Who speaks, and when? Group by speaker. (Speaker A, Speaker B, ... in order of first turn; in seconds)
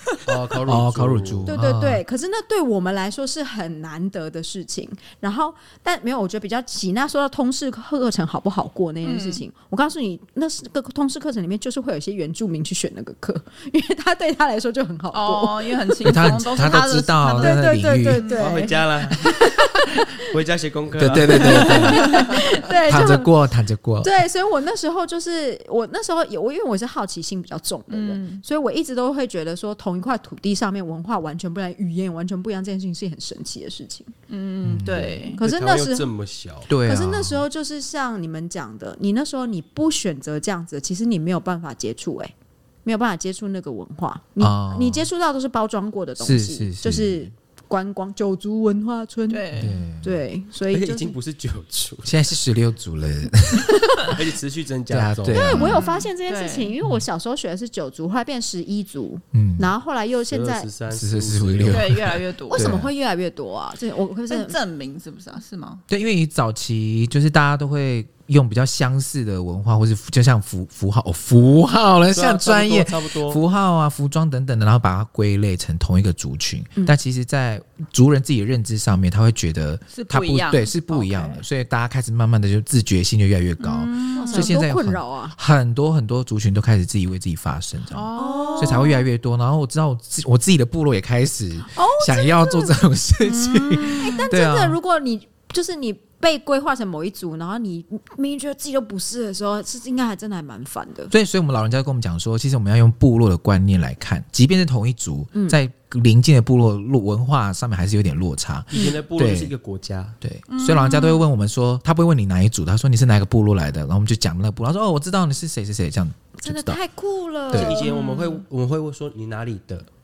Speaker A: 0.2-1.6, 18.4-19.3, 20.2-22.0, 35.4-36.7, 50.7-52.1, 54.0-55.5, 60.3-62.1, 72.1-73.4, 108.7-110.2, 117.5-119.9
Speaker B: 0.7-2.0, 16.0-18.3, 21.0-24.1, 34.6-35.3, 36.7-37.4, 44.4-45.1, 46.2-47.3, 49.6-50.2, 52.0-54.1, 54.9-55.8, 59.3-59.7, 60.9-62.9, 65.9-94.8, 101.1-109.5, 110.2-116.8, 117.5-117.8
Speaker C: 1.5-15.9, 17.4-20.3, 21.3-23.3, 24.0-34.1, 35.4-36.1, 36.8-42.3, 42.9-51.2, 55.3-60.7, 62.5-64.6, 84.2-85.4, 88.2-89.0, 91.7-92.9, 93.7-101.1, 105.3-105.6, 116.4-117.9
Speaker D: 9.0-9.4, 15.1-18.6, 27.9-28.4, 34.3-35.4, 49.3-49.8, 55.5-56.7, 61.7-62.7, 64.3-65.8, 79.9-81.4, 83.6-84.5, 87.9-89.0, 93.2-94.1, 110.5-111.3, 117.8-118.5